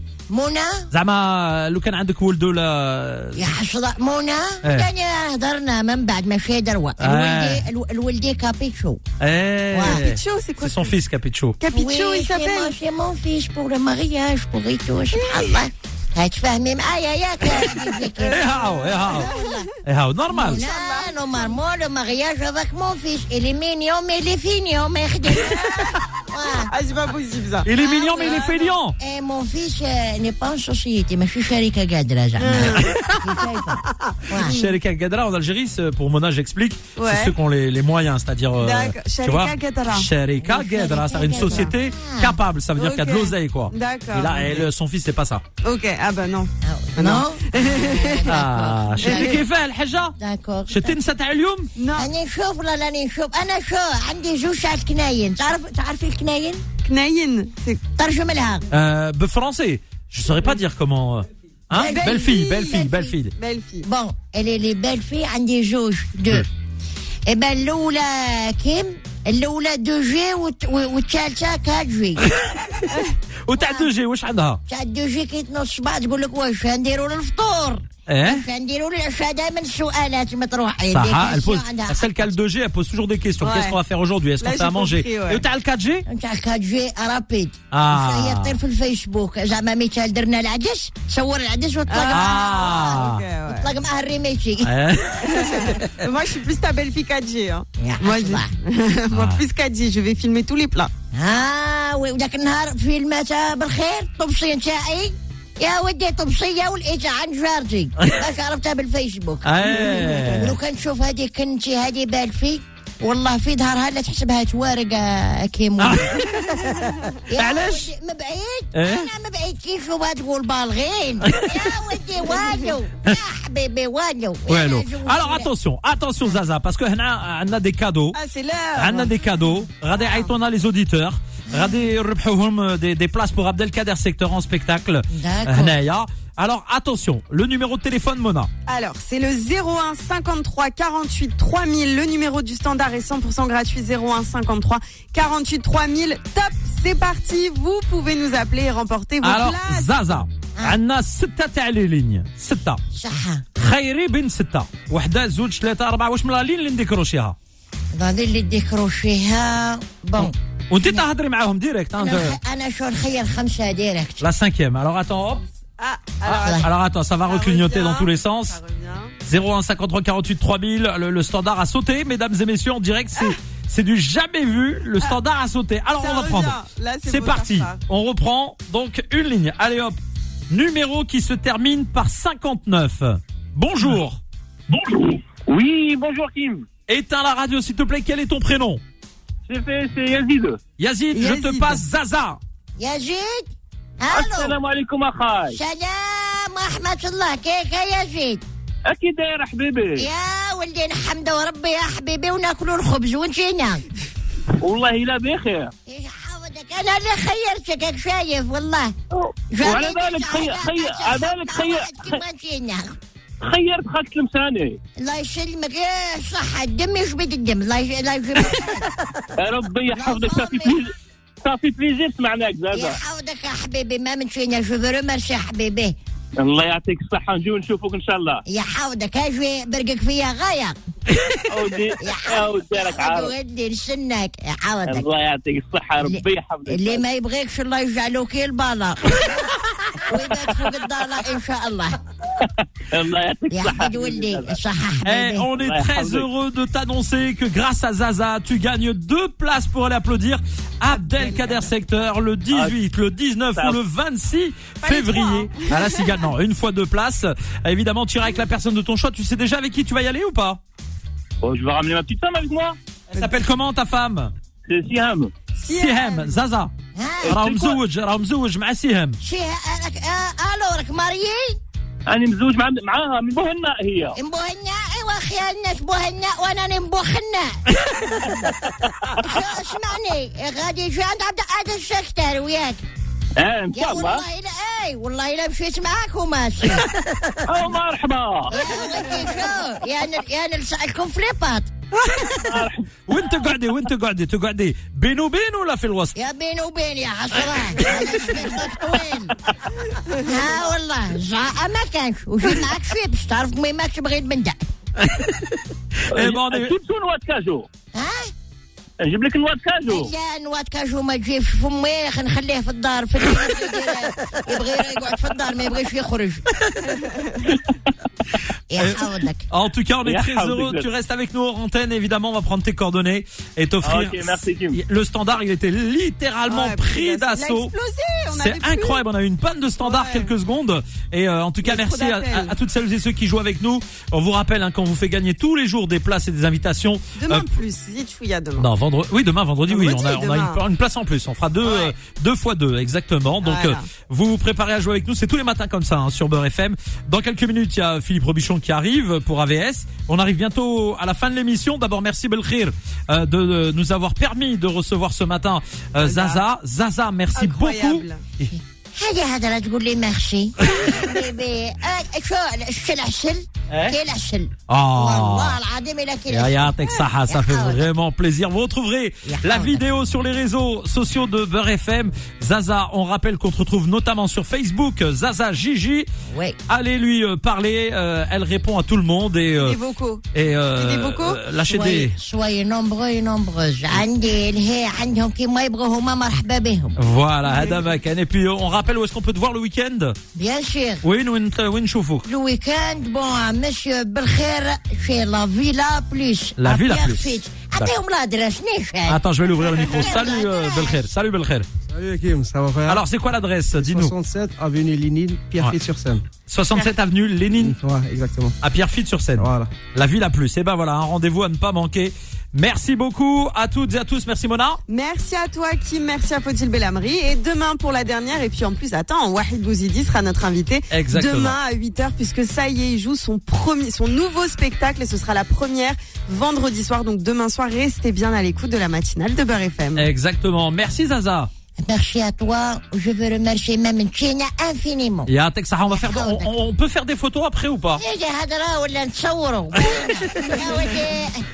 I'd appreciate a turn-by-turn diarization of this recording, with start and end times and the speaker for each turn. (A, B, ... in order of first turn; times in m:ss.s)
0:00.3-0:00.9 A
0:00.9-0:03.4 B
0:03.4-0:09.0 A
0:04.6-0:04.9 B
0:07.0-0:07.6 B
0:09.2-0:11.6 B
0:09.7-0:10.0 A
0:09.8-0:11.0 C
0:11.6-0:12.8 C
0:11.7-0:19.7 A
0:15.1-0:15.5 C
0:17.8-0:19.6 C
0:18.3-0:19.3 B
0:19.8-0:20.6 B
0:20.3-0:26.7 A
0:20.4-0:21.4 C
0:25.4-0:26.0 C
0:26.6-0:27.7 C
0:27.6-0:29.0 B
0:27.7-0:34.6 A
0:28.2-0:28.5 C
0:32.4-0:33.0 C
0:32.8-0:33.2 B
0:34.4-0:45.4 B
0:37.0-0:37.3 C
0:38.6-0:40.1 C
0:40.4-0:42.4 A
0:41.3-0:41.7 C
0:42.8-0:44.6 C
0:45.6-0:48.3 C
0:46.6-0:49.4 A
0:48.2-0:50.1 B
0:49.0-0:49.4 C
0:50.2-0:51.0 A
0:50.7-0:51.7 B
0:51.8-0:52.1 C
0:51.9-0:56.6 A
0:56.8-0:57.8 C
0:58.0-0:58.6 A
0:58.7-1:03.4 B
1:01.7-1:02.2 A
1:01.8-1:03.8 C
1:03.8-1:06.5 A
1:07.3-1:12.3 A
1:12.4-1:12.8 B
1:13.4-1:14.6 B
1:13.6-1:13.9 A
1:14.7-1:22.3 A
1:18.1-1:18.4 B
1:20.9-1:26.0 B
1:23.4-1:23.8 C
1:24.4-1:25.4 C
1:26.1-1:33.0 A
1:27.7-1:28.6 B
1:31.9-1:33.7 C
1:32.1-1:33.2 B
1:33.5-1:34.7 A
1:34.6-1:36.0 B
1:35.2-1:40.9 C
1:37.8-1:38.5 A
1:39.1-1:39.4 B
1:41.1-1:56.2 A
1:49.4-1:50.6 B
1:55.8-1:57.9 B
1:57.3-2:05.5 A
1:58.7-1:59.1 B
2:01.3-2:01.7 B
2:04.5-2:08.2 B
2:08.1-2:09.1 C
2:08.8-2:18.5 B
2:11.5-2:11.8 A
2:15.1-2:15.8 A
2:18.6-2:30.0 C
2:29.2-2:32.8 B
2:32.9-2:33.4 A
2:33.6-2:37.3 B
2:37.9-2:41.0 A
2:40.2-2:42.4 B
2:42.0-2:44.2 A
2:44.2-2:45.4 B
2:45.8-2:46.7 C
2:46.3-2:48.6 B
2:47.2-2:49.1 C
2:49.2-3:00.0 B
2:56.0-2:57.8 C
3:00.5-3:04.2 B
3:04.7-3:06.7 D
3:06.9-3:08.8 B
3:09.5-3:10.6 D
3:10.8-3:12.4 B
3:11.1-3:11.8 C
3:12.8-3:13.4 A
3:14.0-3:14.6 A
3:14.1-3:15.6 D
3:15.5-3:18.4 A
3:18.8-3:20.1 D
3:20.0-3:23.8 A
3:24.6-3:25.7 D
3:25.9-3:28.9 A
3:29.1-3:32.2 D
3:29.5-3:32.9 A
3:33.4-3:34.8 D
3:35.0-3:38.9 A
3:39.3-3:43.0 D
3:39.9-3:40.8 A
3:42.7-3:45.9 A
3:46.4-3:48.4 D
3:48.5-3:50.8 A
3:51.5-3:53.3 D
3:52.0-3:55.0 A
3:54.8-3:57.0 D
3:56.0-4:02.0 A
4:02.4-4:04.6 D
4:03.5-4:05.5 A
4:05.0-4:20.6 B
4:05.5-4:06.3 D
4:12.5-4:12.8 D
4:13.5-4:13.8 D
4:14.8-4:15.9 C
4:21.4-4:22.8 D
4:23.1-4:24.3 B
4:24.7-4:25.3 D
4:25.5-4:26.4 C
4:25.7-4:26.7 B
4:27.0-4:27.4 A
4:27.2-4:27.8 D
4:27.2-4:29.2 B
4:29.2-4:31.6 A
4:32.1-4:34.2 D
4:34.1-4:38.4 A
4:39.1-4:42.8 A
4:43.4-4:44.2 D
4:43.7-4:47.3 A
4:47.5-4:48.5 D
4:48.5-4:51.7 A
4:52.4-4:52.8 D
4:53.1-4:56.2 B
4:56.1-4:59.4 A
5:00.1-5:04.6 A
5:05.0-5:05.6 B
5:06.1-5:07.7 D
5:06.1-5:06.7 B
5:07.9-5:08.3 A
5:09.0-5:10.1 D
5:09.9-5:16.5 A
5:16.9-5:17.3 C
5:18.7-5:19.4 A
5:18.8-5:27.7 B
5:20.0-5:20.9 D
5:23.8-5:24.8 D
5:26.5-5:29.1 C
5:28.3-5:37.5 B
5:29.8-5:30.3 C
5:31.6-5:32.5 C
5:37.2-5:38.7 C
5:38.6-5:58.5 B
5:39.7-5:40.6 C
5:41.6-5:41.9 C
5:43.4-5:43.9 C
5:56.0-5:56.4 C
5:57.3-5:58.2 C
5:58.9-6:07.8 A
6:03.7-6:04.0 B
6:04.7-6:05.6 B
6:06.3-6:16.1 B
6:09.2-6:09.8 A
6:16.3-6:16.6 A
6:16.7-6:19.8 B
6:19.6-6:21.4 C
6:20.3-6:22.2 B
6:21.7-6:27.0 A
6:27.0-6:30.2 B
6:27.4-6:27.8 C
6:30.3-6:31.0 A
6:31.0-6:32.3 B
6:32.2-6:39.2 A
6:36.6-6:37.9 B
6:39.1-6:41.6 B
6:39.9-6:41.0 A
6:41.9-6:43.0 E
6:42.8-6:44.1 B
6:43.7-6:46.2 E
6:46.5-6:47.8 B
6:47.6-6:48.5 E
6:48.6-6:54.8 B
6:49.4-6:49.7 E
6:54.9-7:10.1 C
7:00.9-7:01.6 B
7:09.9-7:11.5 B
7:11.8-7:15.3 A
7:15.3-7:18.0 B
7:15.9-7:16.5 A
7:18.0-7:21.4 A